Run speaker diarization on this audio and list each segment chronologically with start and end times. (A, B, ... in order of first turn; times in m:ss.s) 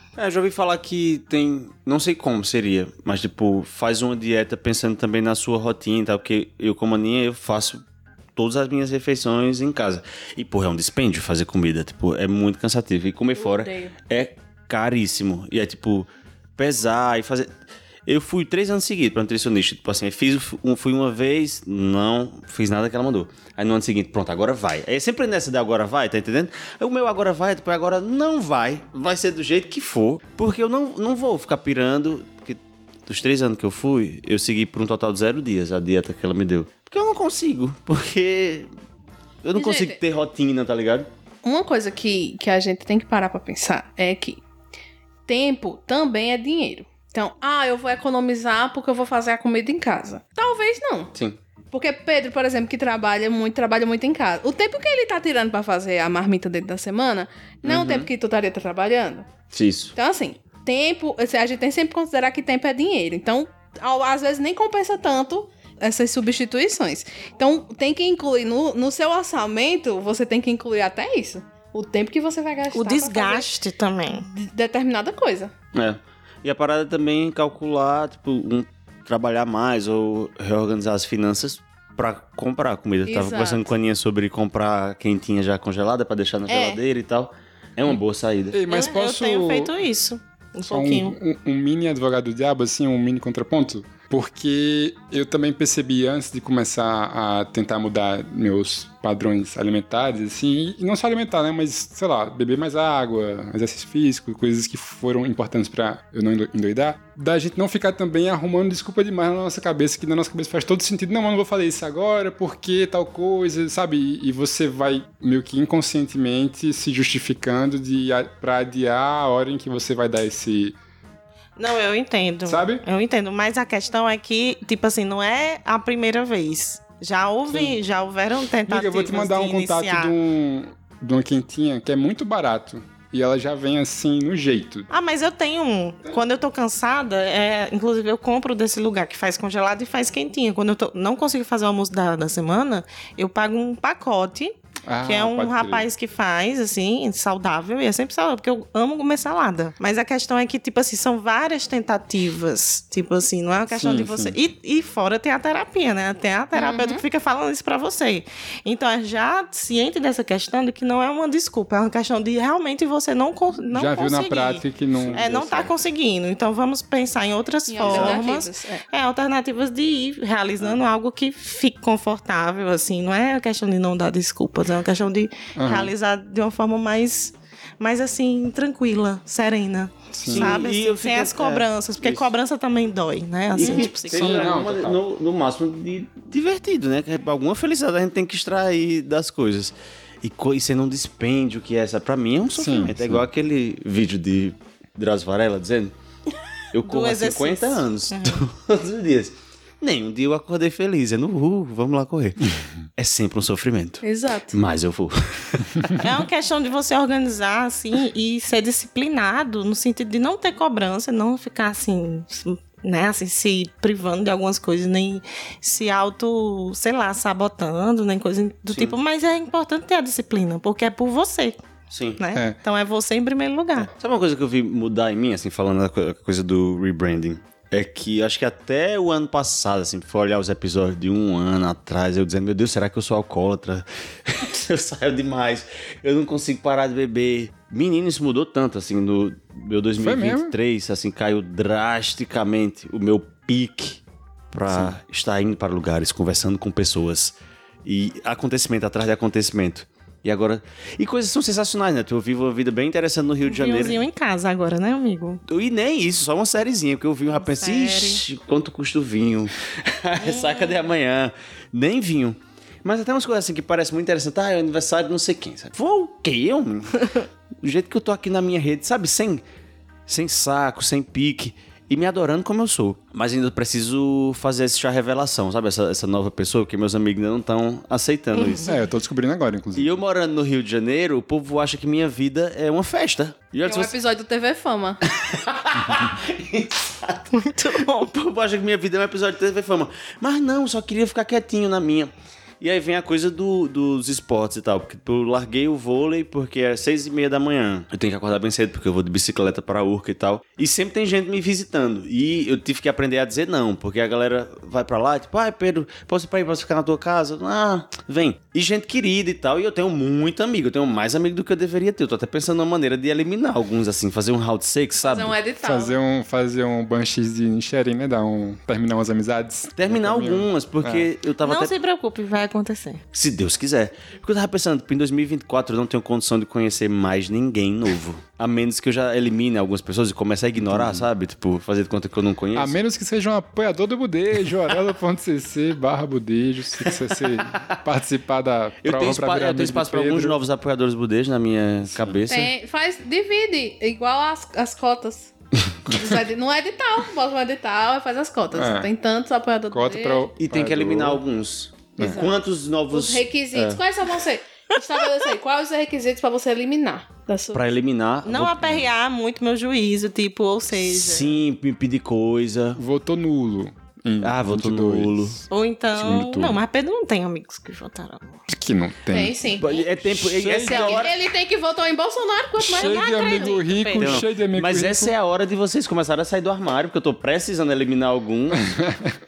0:00.2-0:07.8 A
0:08.4-0:17.5 A
0:13.4-0:14.0 B
0:18.1-0:38.7 A
0:39.4-0:41.1 A
0:39.6-0:40.0 B
0:41.4-0:44.4 B
0:45.3-0:51.1 B
0:51.7-0:59.3 B
0:57.6-0:58.1 A
0:59.5-1:00.0 A
1:00.0-1:13.5 B
1:12.7-1:14.3 C
1:14.3-1:15.5 B
1:15.7-1:28.6 A
1:23.0-1:23.6 B
1:26.5-1:26.8 B
1:28.5-1:29.7 D
1:28.7-1:31.2 C
1:30.7-2:00.8 D
2:01.6-2:10.2 C
2:02.5-2:02.8 D
2:07.5-2:07.8 D
2:08.7-2:14.9 D
2:14.9-3:04.7 C
2:24.9-2:25.9 D
2:33.7-2:34.4 D
2:36.6-2:37.0 B
2:43.7-2:45.7 D
2:45.0-2:45.2 A
2:47.7-2:48.8 B
2:47.8-2:48.2 A
2:55.6-2:55.9 D
3:00.1-3:00.6 D
3:00.3-3:02.2 A
3:03.5-3:16.0 A
3:03.6-3:05.0 D
3:12.5-3:13.2 D
3:16.7-3:26.1 A
3:16.8-3:18.4 C
3:24.0-3:24.6 B
3:26.0-3:41.6 C
3:38.7-3:39.0 A
3:41.9-3:42.2 A
3:42.2-3:43.9 C
3:43.8-4:14.0 A
4:00.0-4:00.6 D
4:04.7-4:05.0 D
4:13.4-4:15.4 C
4:15.5-4:29.4 A
4:17.3-4:18.2 C
4:20.2-4:20.9 C
4:30.1-4:38.7 A
4:38.6-4:40.0 D
4:39.8-4:43.9 A
4:43.6-4:45.0 B
4:45.1-4:47.3 A
4:47.3-4:48.1 C
4:48.0-5:15.4 A
5:15.0-5:15.9 B
5:15.6-5:21.1 D
5:19.8-5:21.7 A
5:21.4-5:23.0 C
5:23.1-5:32.8 A
5:30.6-5:31.1 D
5:32.5-5:40.4 D
5:36.8-5:37.7 A
5:38.8-5:42.5 A
5:41.8-5:42.2 D
5:42.3-5:45.3 B
5:45.9-5:50.3 B
5:48.5-5:48.9 D
5:49.7-5:51.2 D
5:50.4-5:53.8 A
5:52.0-5:52.3 D
5:52.0-5:52.3 B
5:52.9-5:57.6 B
5:57.5-5:58.9 A
5:58.2-6:01.4 C
6:00.8-6:02.8 A
6:02.8-6:05.4 D
6:04.2-6:05.4 A
6:05.5-6:08.5 C
6:06.0-6:06.6 D
6:08.5-6:09.4 D
6:09.1-6:09.7 B
6:09.6-6:11.2 A
6:10.0-6:11.1 D
6:10.5-6:13.7 B
6:12.6-6:15.1 D
6:12.8-6:14.2 C
6:14.0-6:18.7 A
6:18.6-6:19.2 D